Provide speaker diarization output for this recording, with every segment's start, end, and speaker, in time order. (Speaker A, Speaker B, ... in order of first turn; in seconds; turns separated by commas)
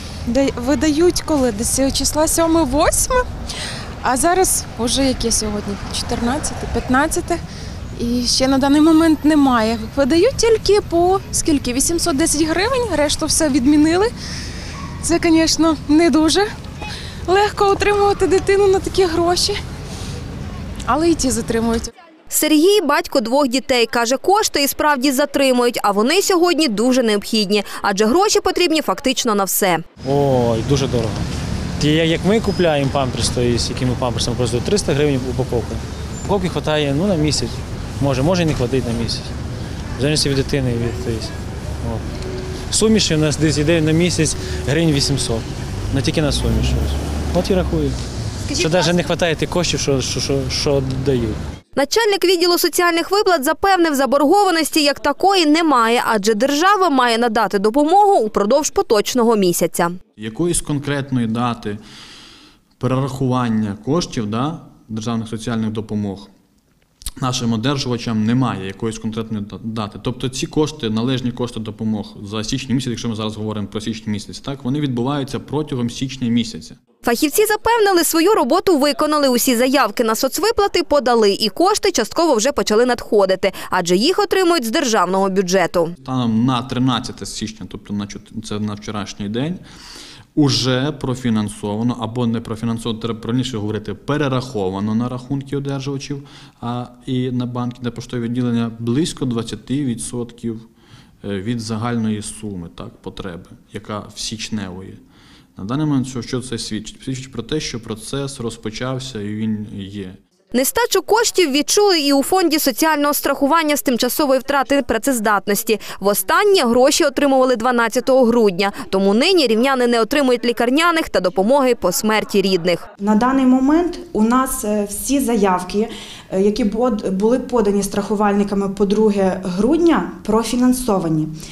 Speaker A: 0.3-3.2, Speaker A: 4.0-7.4, Speaker A: 8.0-14.1, Speaker A: 15.0-16.5, Speaker A: 17.3-19.6, Speaker A: 20.9-21.9, Speaker B: 22.3-29.8, Speaker C: 30.0-31.3, Speaker C: 31.8-39.3, Speaker C: 40.0-42.0, Speaker C: 42.7-48.0, Speaker B: 48.5-49.0, Speaker C: 48.6-51.4, Speaker B: 51.8-60.0, Speaker D: 60.2-61.8, Speaker D: 62.8-66.3, Speaker D: 67.2-76.8, Speaker B: 77.0-86.0, Speaker D: 86.0-89.6, Speaker D: 90.3-100.7, Speaker D: 101.2-105.0, Speaker D: 105.6-110.2, Speaker B: 110.5-122.8, Speaker E: 123.0-131.3